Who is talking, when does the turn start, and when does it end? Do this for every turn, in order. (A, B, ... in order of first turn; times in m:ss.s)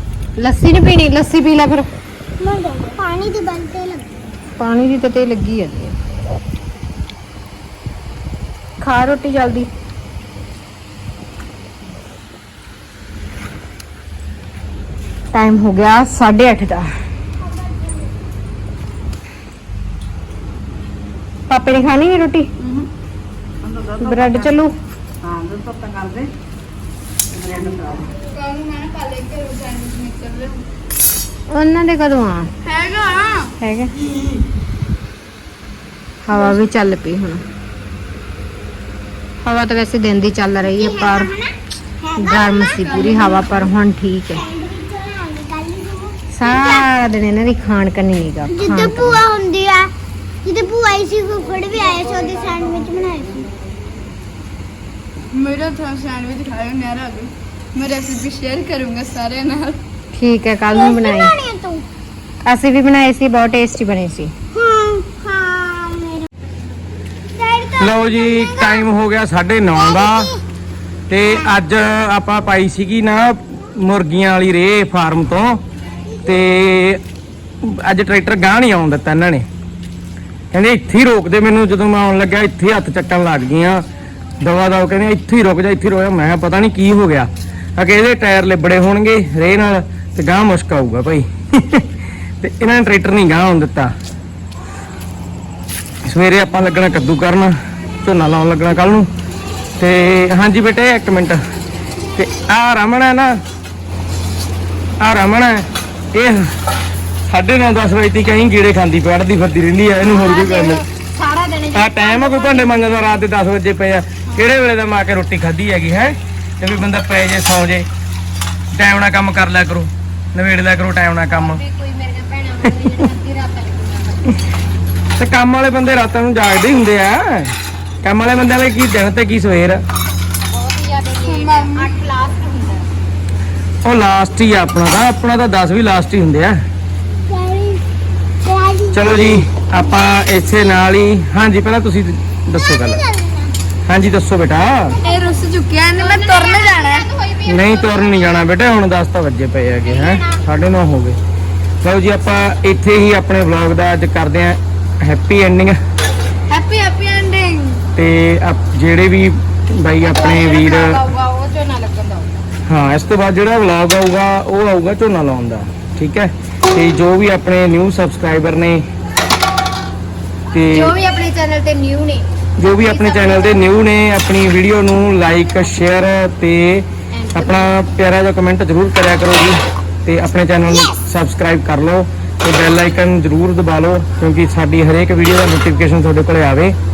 0:00.4-0:01.9 A
0:02.4-0:04.1 B
0:04.6-0:06.0 A
0:08.8-0:09.7 A
0:15.3-0:16.9 A
0:17.4-0:18.1 B
0:21.5-0:22.5 A
0:22.6-0:22.9 C
0:23.6-0:24.6 C
0:24.0-0:24.7 A
0:25.2-0:26.3 C
0:27.3-0:28.1 C
0:28.2-0:30.6 D
0:31.5-0:32.5 A
0:32.6-0:33.5 D
0:33.6-0:33.9 A
0:36.2-0:37.4 A
0:39.4-0:41.3 A
0:40.7-0:43.7 B
0:42.2-0:44.4 A
0:44.3-0:46.9 B
0:46.3-0:49.2 A
0:48.5-0:49.9 B
0:50.4-0:53.5 B
0:55.3-0:59.8 D
1:00.1-1:01.3 A
1:00.7-1:01.8 B
1:02.4-1:04.3 A
1:04.5-1:06.4 B
1:07.3-1:08.9 B
1:07.8-1:10.3 E
1:09.7-1:10.4 B
1:11.1-1:15.6 E
1:16.2-1:17.0 E
1:17.6-1:19.4 E
1:20.5-1:23.8 E
1:24.4-1:31.9 E
1:32.4-1:33.9 E
1:36.0-1:39.1 E
1:39.8-1:41.4 E
1:42.1-1:43.3 E
1:45.0-1:46.4 E
1:47.3-1:50.8 E
1:50.0-1:53.1 A
1:51.7-1:57.8 E
1:58.7-2:01.6 E
2:01.2-2:04.4 A
2:05.2-2:09.8 E
2:10.5-2:12.9 A
2:11.2-2:11.9 D
2:13.8-2:16.6 E
2:17.2-2:17.8 B
2:18.4-2:19.8 B
2:18.9-2:23.0 E
2:22.5-2:23.5 B
2:23.9-2:25.0 E
2:25.0-2:27.1 D
2:25.9-2:28.5 A
2:27.5-2:31.2 E
2:29.9-2:30.4 A
2:31.8-2:35.8 E
2:36.5-2:37.8 D
2:37.9-2:41.0 E
2:39.9-2:42.3 A
2:42.7-2:48.8 E
2:50.5-2:50.9 E
2:50.6-2:53.7 A
2:52.6-3:06.7 E
2:57.1-2:57.8 A